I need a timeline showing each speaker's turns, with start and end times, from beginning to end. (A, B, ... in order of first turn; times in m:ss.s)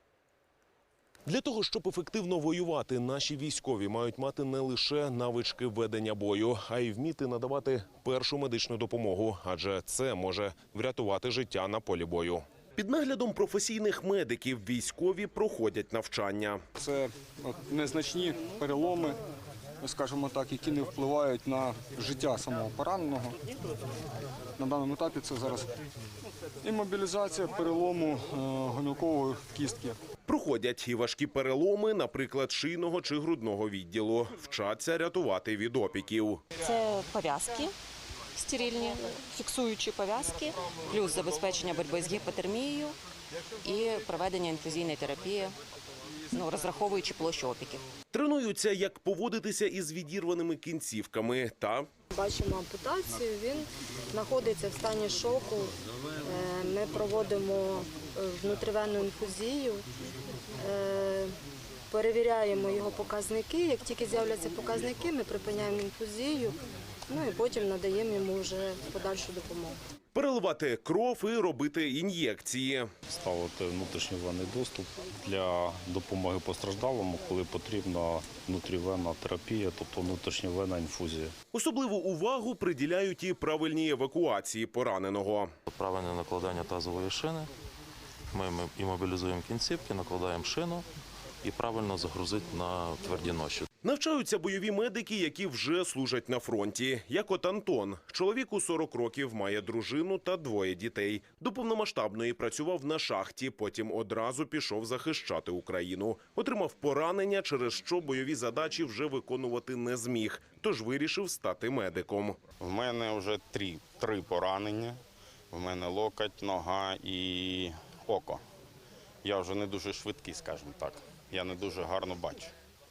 0:01.3-0:16.6 A
0:16.8-0:19.1 B
0:19.9-0:23.3 B
0:24.6-0:25.7 B
0:26.6-0:30.0 B
0:30.3-0:36.4 A
0:36.6-0:37.7 C
0:38.4-0:43.0 C
0:43.6-0:45.6 C
0:46.3-0:47.8 C
0:48.1-0:51.9 A
0:52.1-0:55.7 D
0:56.2-0:59.8 D
1:00.6-1:01.3 D
1:01.9-1:09.8 D
1:10.2-1:12.9 A
1:13.1-1:21.3 E
1:21.5-1:25.5 A
1:25.7-1:27.5 F
1:28.3-1:30.8 F
1:31.4-1:33.7 F
1:33.8-1:52.4 A
1:52.6-1:55.0 G
1:55.5-1:58.4 G
1:59.2-2:02.5 G